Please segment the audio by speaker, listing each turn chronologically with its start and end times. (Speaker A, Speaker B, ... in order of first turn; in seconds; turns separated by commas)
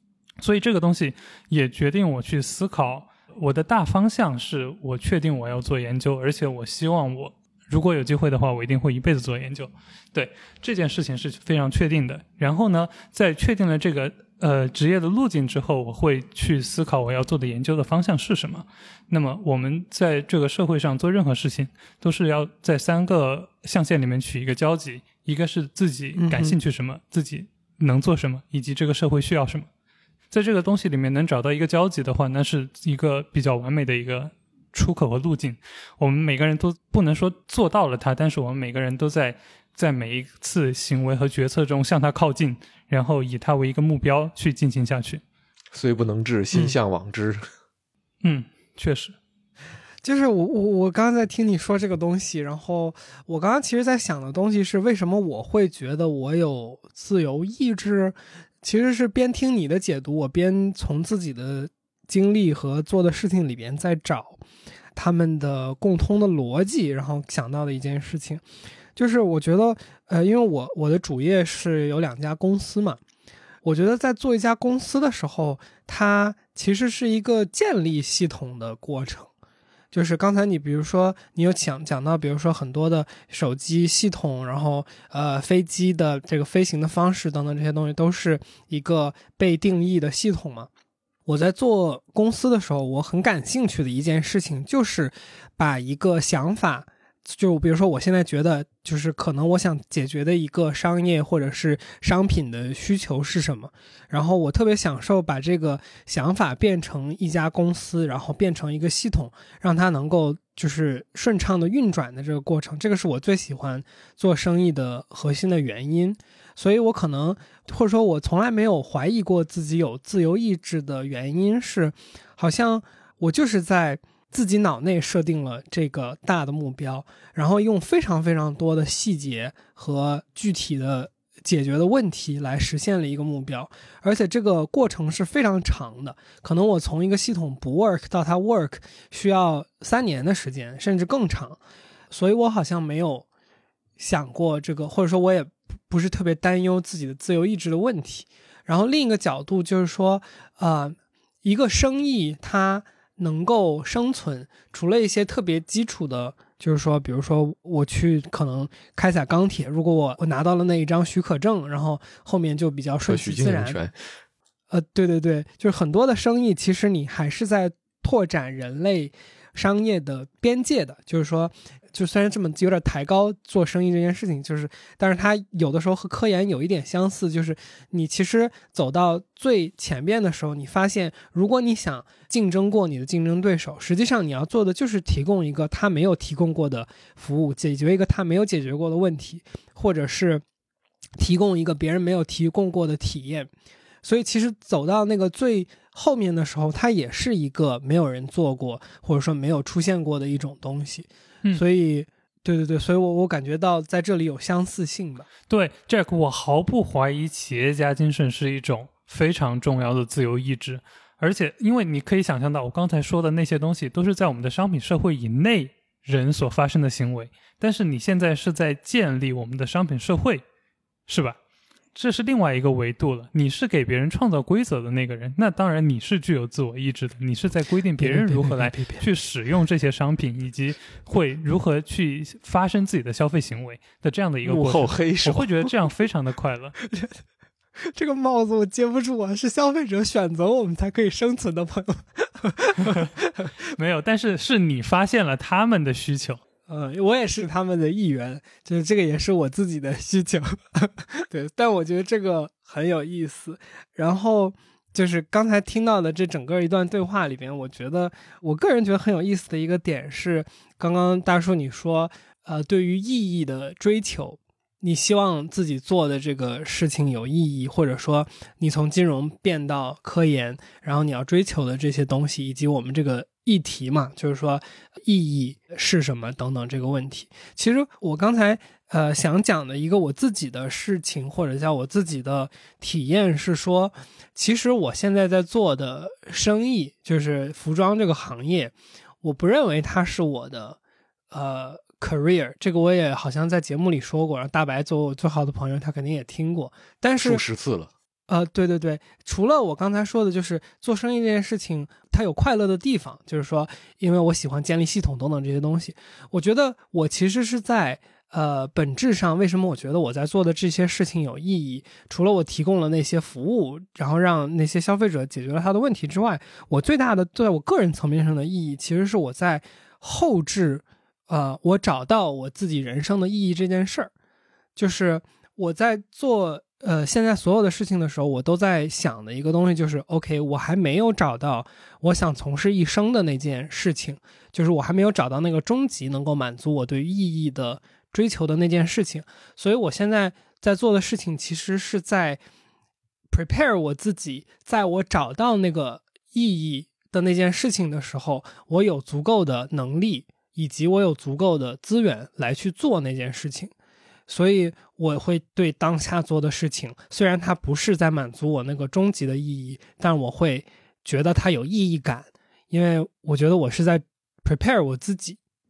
Speaker A: 0.4-29.7, Speaker B: 26.2-26.6, Speaker A: 30.3-45.2, Speaker C: 45.7-47.5, Speaker A: 48.2-49.2, Speaker B: 50.0-64.4, Speaker B: 65.0-68.4, Speaker B: 69.0-73.0, Speaker B: 73.6-79.3, Speaker B: 79.9-90.7, Speaker B: 91.3-141.6, Speaker B: 142.1-143.3, Speaker B: 144.0-163.8, Speaker C: 163.1-164.0, Speaker B: 164.7-190.4, Speaker B: 191.2-193.5, Speaker B: 194.0-205.3, Speaker A: 205.5-220.4, Speaker A: 221.1-221.4, Speaker A: 221.9-236.8, Speaker B: 228.0-229.1, Speaker C: 234.4-235.6, Speaker B: 236.9-237.2, Speaker B: 237.8-243.5, Speaker A: 243.8-246.4, Speaker B: 246.7-290.8, Speaker B: 291.3-297.4, Speaker C: 297.2-297.9, Speaker B: 298.3-324.1, Speaker B: 324.8-342.4, Speaker B: 343.3-353.7, Speaker B: 354.3-365.4